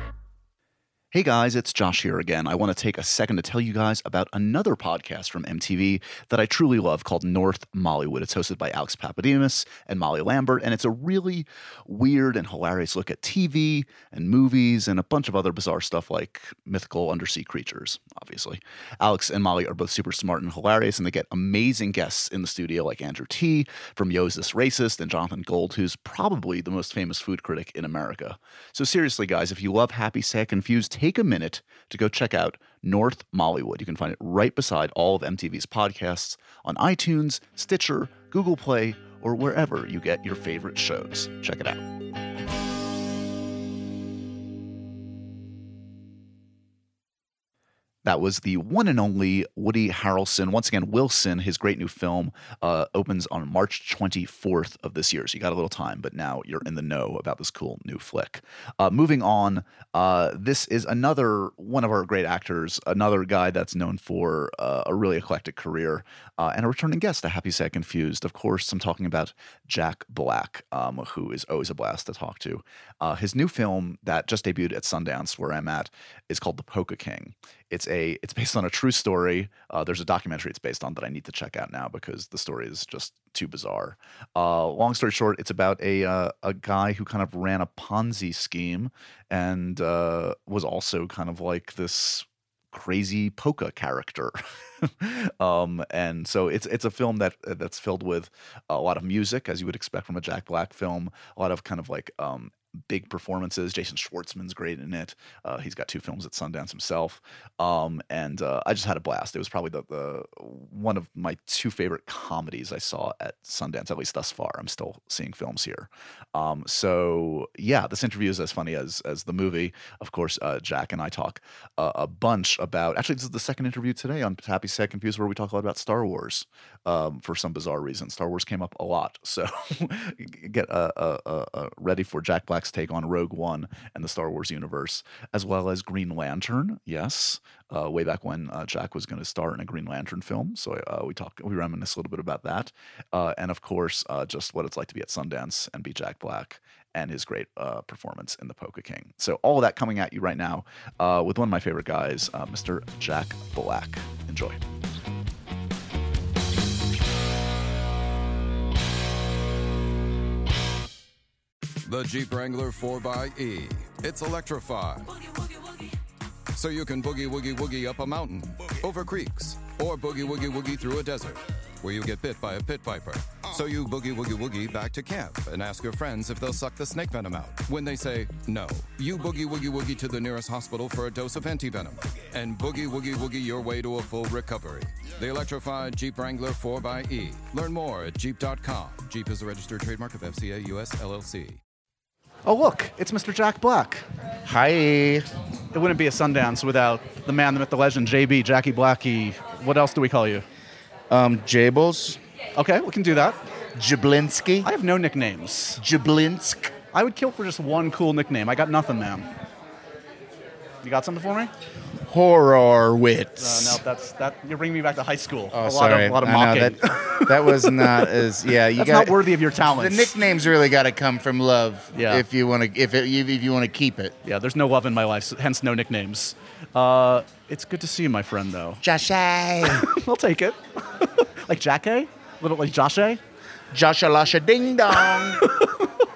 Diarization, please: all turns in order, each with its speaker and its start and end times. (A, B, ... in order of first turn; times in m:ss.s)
0:01.1-0:41.8 A
0:48.0-2:34.6 A
2:41.8-2:45.2 B
2:46.5-3:11.6 B
3:12.4-3:14.0 A
3:14.4-3:15.2 C
3:15.7-3:20.4 A
3:21.1-3:22.2 C
3:22.6-3:23.4 A
3:23.7-3:24.7 C
3:24.6-3:25.8 A
3:25.8-3:26.7 C
3:26.9-3:29.3 A
3:30.8-3:31.5 A
3:32.0-3:33.8 C
3:33.4-3:38.0 A
3:35.5-3:44.1 C
3:38.7-3:40.1 A
3:41.9-3:42.2 A
3:44.2-3:48.8 A
3:48.8-3:49.9 C
3:49.7-3:53.2 A
3:53.7-3:55.5 C
3:55.4-3:55.9 A